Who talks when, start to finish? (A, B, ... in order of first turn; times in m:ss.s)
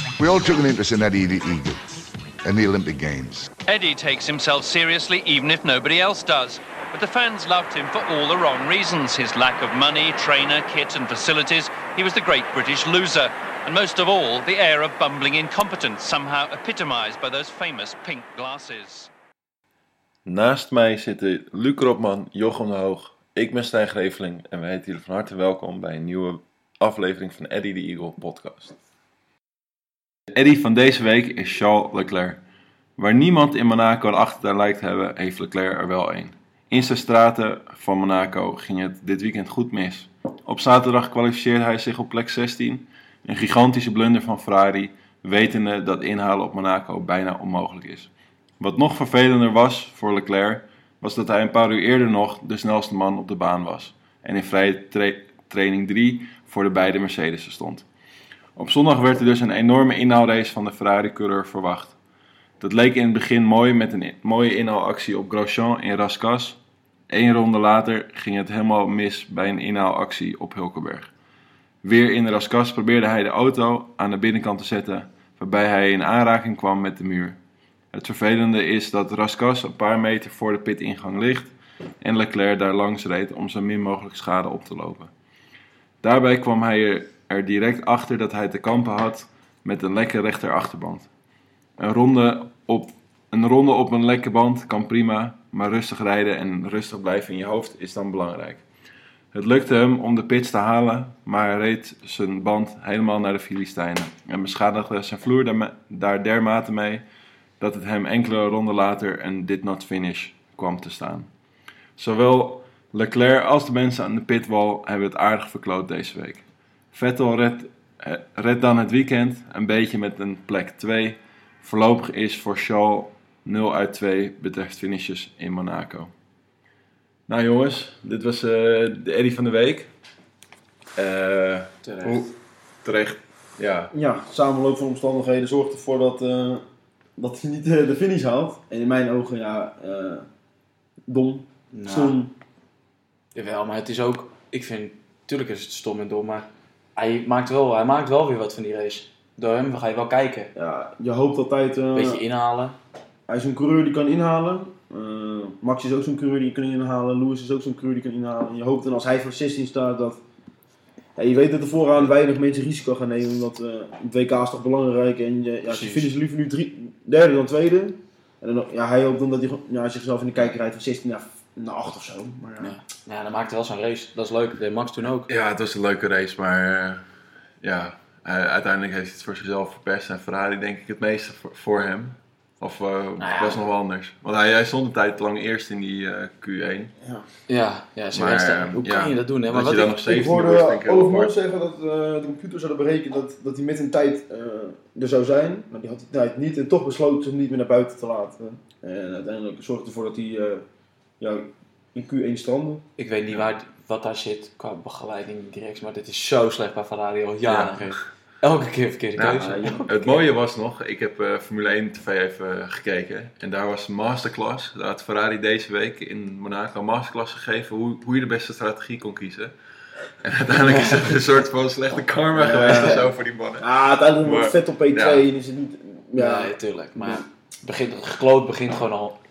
0:00.2-0:01.8 A
0:02.4-0:03.5 A
0:03.6-0:19.1 B
0:20.3-0:28.8 C
0:30.3-0:32.4 C
0:33.0-0:48.1 C
0:48.6-0:57.8 C
0:58.6-1:02.0 C
1:02.6-1:06.6 C
1:07.1-1:11.1 C
1:11.8-1:17.4 C
1:17.9-1:25.1 C
1:26.0-1:31.1 C
1:31.8-1:38.6 C
1:39.3-1:47.0 C
1:47.6-1:51.3 C
1:52.0-2:06.1 C
2:07.3-2:09.9 C
2:11.0-2:12.3 C
2:11.8-2:12.3 D
2:12.8-2:13.9 C
2:13.9-2:16.6 E
2:17.2-2:20.3 E
2:21.1-2:22.3 E
2:21.7-2:22.2 D
2:23.3-2:30.5 D
2:30.6-2:32.2 E
2:31.9-2:32.8 D
2:33.3-2:40.2 E
2:41.2-2:52.8 E
2:45.7-2:46.1 D
2:52.6-2:55.3 D
2:55.3-2:57.0 C
2:57.6-3:06.9 C
3:03.2-3:03.6 D
3:07.0-3:07.3 E
3:07.5-3:10.0 D
3:08.1-3:11.3 C
3:10.0-3:20.6 E
3:21.2-3:22.8 E
3:23.0-3:30.1 D
3:27.5-3:27.9 C
3:29.2-3:39.5 C
3:29.4-3:30.0 E
3:40.1-3:45.3 C
3:42.4-3:47.2 E
3:46.2-3:49.2 D